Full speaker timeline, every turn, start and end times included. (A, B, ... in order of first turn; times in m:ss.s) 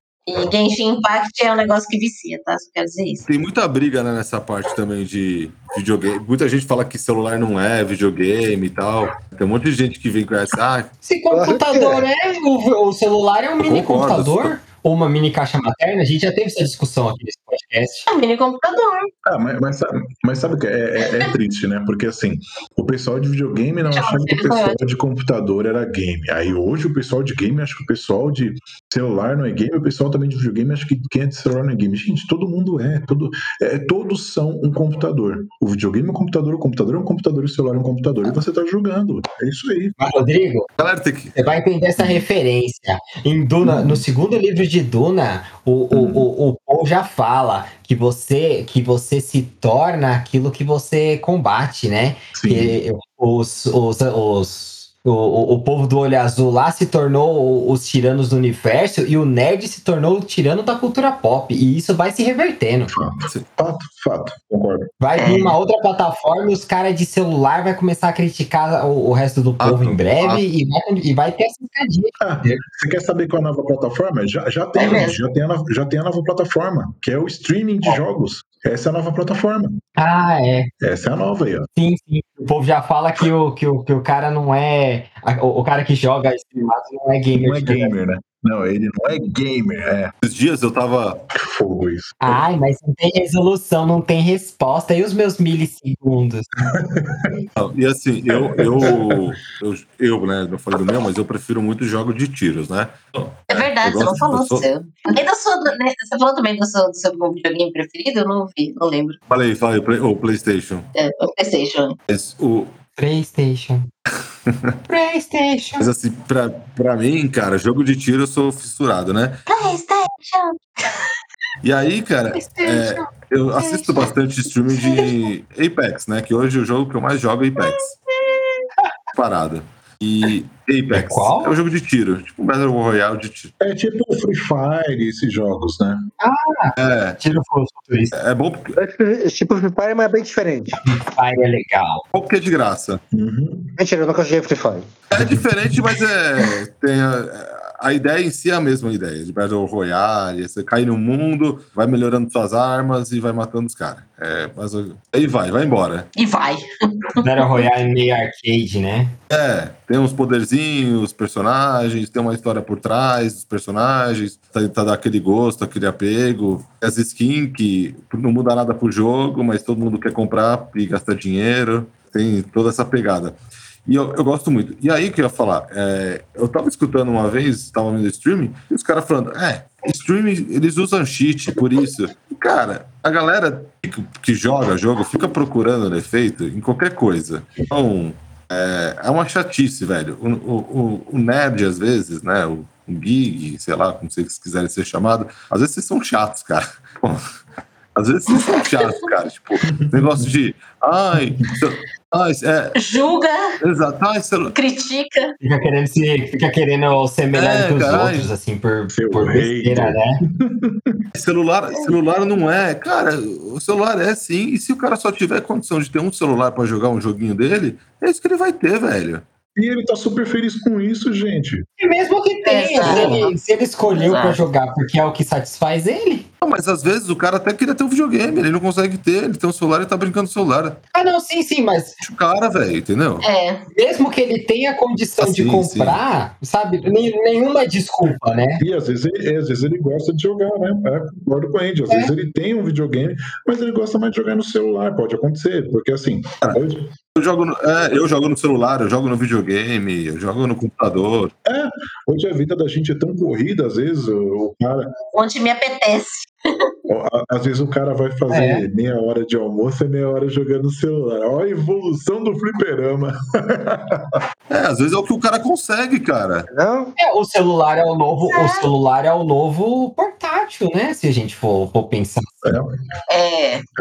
0:00.3-0:03.2 A
0:03.2-0:10.9 B
0:11.0-0:18.1 C
0:11.3-0:12.1 D
0:13.6-0:14.6 B
0:18.1-0:19.1 A
0:19.2-0:40.0 E
0:23.9-0:24.8 A
0:40.0-0:40.7 C
0:40.8-0:41.4 B
0:41.4-1:02.9 C
0:42.0-0:42.2 E
0:43.6-0:44.0 E
0:45.9-0:46.3 E
0:52.3-0:52.8 E
1:02.9-1:04.9 E
1:05.0-1:12.6 C
1:05.2-1:05.6 A
1:09.6-1:10.4 B
1:12.2-1:19.8 E
1:14.8-1:15.2 A
1:20.0-1:20.7 C
1:20.8-1:21.7 E
1:21.8-1:27.9 C
1:27.3-1:30.1 E
1:30.2-1:31.2 B
1:31.4-1:32.4 E
1:32.2-1:36.5 C
1:37.0-1:37.3 E
1:37.6-1:44.7 B
1:38.4-1:39.2 E
1:43.5-1:49.2 A
1:49.3-1:50.9 B
1:51.0-1:52.0 A
1:52.1-1:52.7 B
1:53.0-1:53.9 C
1:54.4-1:54.7 B
1:54.9-1:55.9 C
1:55.8-1:59.4 B
1:59.5-2:01.0 A
2:01.6-2:08.0 B
2:02.3-2:03.1 C
2:03.6-2:04.1 A
2:04.7-2:05.1 A
2:09.1-2:13.5 B
2:10.9-2:11.6 C
2:13.6-2:16.1 E
2:16.2-2:18.1 C
2:16.8-2:17.2 B
2:18.1-2:18.8 B
2:18.8-2:20.8 D
2:20.8-2:22.0 C
2:22.1-2:23.0 B
2:23.1-2:23.7 E
2:23.8-2:24.9 D
2:25.1-2:36.1 B
2:25.1-2:25.9 E
2:36.2-2:37.6 A
2:37.2-2:39.1 C
2:39.3-3:17.2 B
3:18.0-3:22.8 B
3:19.6-3:20.3 E
3:22.8-3:23.6 A
3:23.6-3:24.5 B
3:24.5-3:25.4 A
3:25.4-3:30.2 C
3:27.3-3:28.3 B
3:28.9-3:30.7 E
3:31.2-3:39.2 B
3:39.6-3:41.6 E
3:41.8-3:46.3 C
3:42.4-3:43.3 A
3:43.9-3:44.4 A
3:46.4-3:50.8 B
3:50.9-3:52.0 C
3:52.0-3:53.3 B
3:53.2-3:53.6 A
3:53.7-3:58.6 C
3:55.2-3:56.0 B
3:58.6-4:06.9 E
4:07.2-4:11.3 B
4:11.4-4:15.0 E
4:15.1-4:16.7 A
4:16.9-4:24.0 E
4:18.3-4:18.7 C
4:24.5-4:26.5 B
4:26.5-4:26.9 D
4:27.0-4:32.4 C
4:28.2-4:28.7 A
4:32.4-4:32.7 E
4:33.1-4:33.6 A